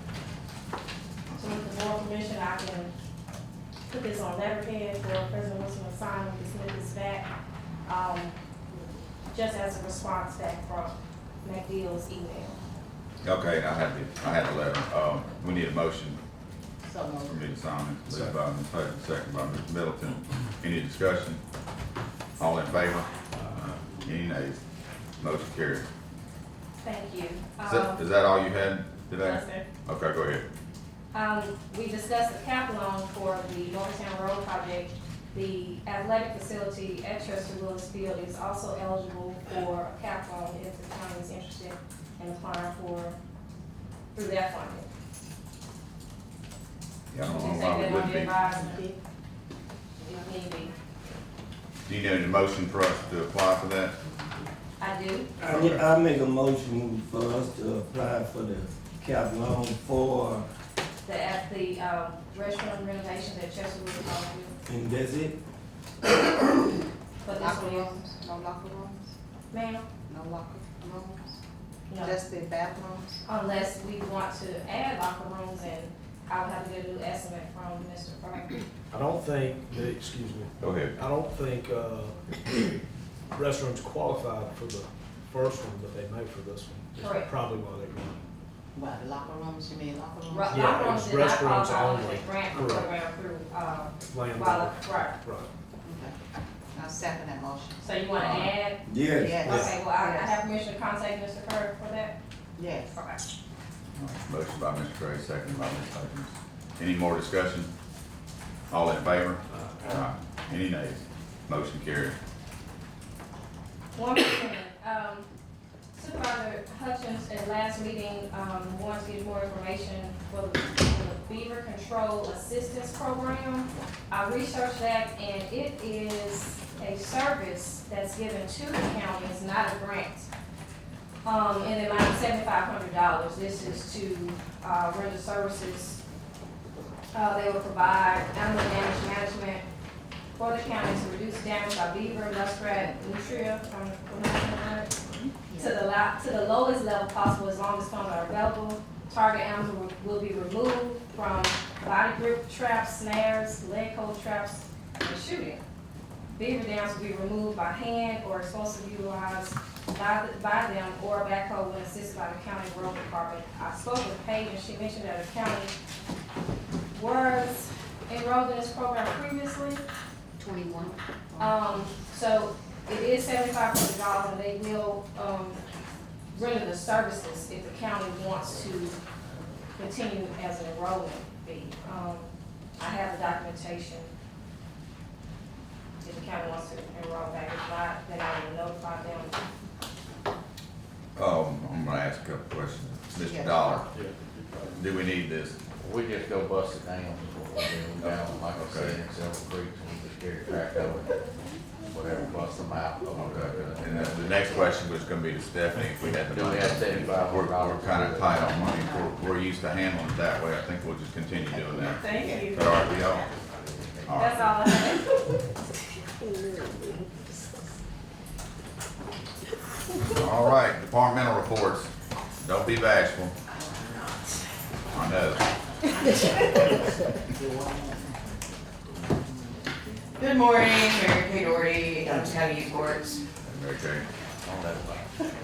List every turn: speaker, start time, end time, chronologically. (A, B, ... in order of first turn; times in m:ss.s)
0:01.4-0:02.9 A
0:03.9-0:07.3 A
0:07.8-0:08.4 A
0:09.3-0:12.6 A
0:13.2-0:16.2 B
0:16.8-0:17.4 C
0:17.2-0:21.4 B
0:22.4-0:24.6 B
0:25.2-0:25.8 B
0:26.8-0:28.0 A
0:27.6-0:30.4 B
0:29.2-0:29.6 A
0:31.1-0:43.1 A
0:44.1-0:44.8 A
0:47.1-0:48.4 B
0:47.2-0:48.9 A
0:50.0-0:50.7 A
0:51.8-0:53.9 B
0:54.8-0:55.3 A
0:55.4-1:00.4 D
1:01.0-1:04.5 A
1:04.7-1:05.4 D
1:06.0-1:06.6 D
1:07.2-1:08.0 A
1:07.2-1:09.2 C
1:09.5-1:09.8 A
1:10.1-1:11.4 C
1:11.9-1:12.2 A
1:12.0-1:13.2 C
1:13.2-1:18.6 A
1:18.9-1:20.5 E
1:20.6-1:20.9 B
1:21.0-1:22.1 E
1:23.4-1:28.2 E
1:27.0-1:27.3 A
1:28.7-1:30.7 C
1:30.3-1:35.2 A
1:30.6-1:32.8 E
1:34.1-1:35.5 E
1:35.8-1:36.1 C
1:36.7-1:37.8 C
1:37.8-1:42.1 A
1:38.2-1:38.5 B
1:38.8-1:39.7 D
1:39.2-1:40.4 C
1:42.6-1:43.0 C
1:42.9-1:43.2 A
1:44.0-1:47.7 B
1:48.7-1:52.2 B
1:54.0-1:55.3 A
1:55.9-2:10.3 A
2:11.2-2:16.0 A
2:17.1-2:19.6 A
2:20.4-2:25.0 A
2:25.5-2:35.6 A
2:36.3-2:45.7 A
2:46.9-2:49.8 A
2:50.4-2:51.6 C
2:51.4-2:55.6 A
2:56.3-2:59.0 A
2:59.8-3:04.1 A
3:06.0-3:09.4 A
3:11.2-3:14.0 B
3:13.1-3:13.9 C
3:14.7-3:15.6 B
3:15.8-3:21.2 F
3:18.0-3:19.0 B
3:21.8-3:24.7 F
3:23.1-3:33.3 B
3:26.0-3:28.9 F
3:32.0-3:32.6 A
3:32.1-3:32.5 C
3:33.1-3:34.6 F
3:34.0-3:34.5 B
3:34.2-3:35.3 A
3:40.1-3:43.4 B
3:43.6-3:44.1 G
3:44.9-3:45.4 B
3:47.4-3:48.1 C
3:50.2-3:53.2 G
3:53.4-3:54.0 B
3:54.4-3:55.3 F